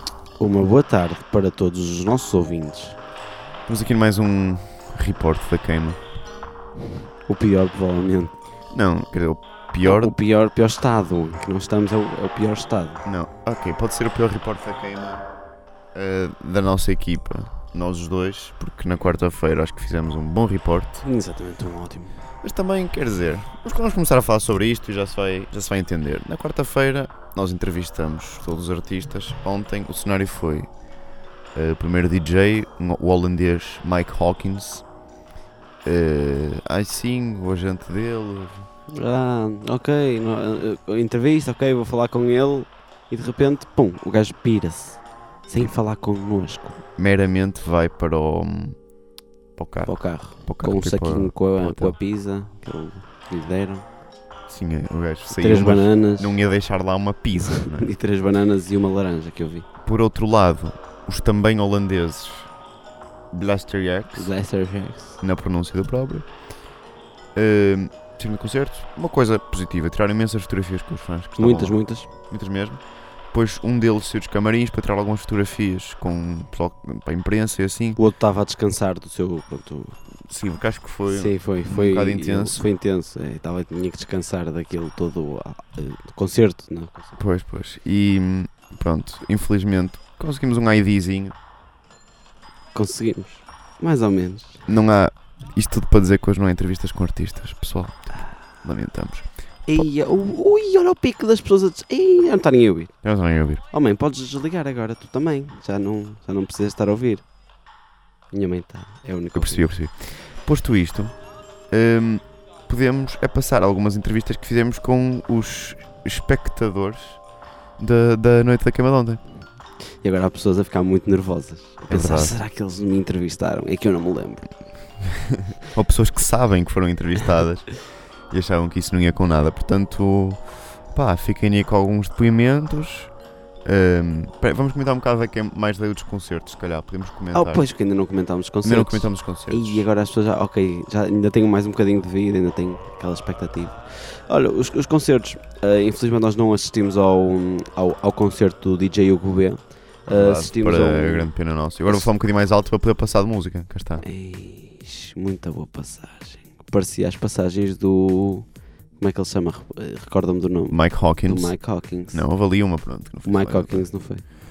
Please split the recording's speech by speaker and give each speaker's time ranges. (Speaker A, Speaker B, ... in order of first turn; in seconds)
Speaker A: 0.4-3.0, 7.3-8.3, 9.8-13.0, 21.0-22.1, 38.9-46.8, 49.9-53.9, 55.4-56.3, 57.6-59.6, 64.2-65.2, 71.4-72.1, 78.0-80.0, 81.1-87.2, 92.7-94.6, 99.7-102.9, 103.7-107.2, 108.3-109.7, 120.0-124.5, 137.3-151.3, 154.0-158.5, 159.0-162.2, 163.2-164.2
Speaker B: 3.7-6.0, 8.7-10.2, 13.0-15.2, 15.9-21.0, 22.4-30.7, 31.5-34.8, 35.8-38.7, 47.0-48.8, 49.5-52.0, 54.5-57.9, 59.8-62.5, 63.3-64.3, 65.2-66.2, 67.3-78.0, 80.3-82.6, 87.2-91.3, 94.7-99.3, 103.0-103.6, 109.3-111.1, 111.7-117.2, 117.8-119.2, 121.9-122.4, 125.7-127.8, 128.3-130.4, 130.9-133.1, 133.6-137.6, 138.6-139.8, 150.1-154.0, 160.7-163.9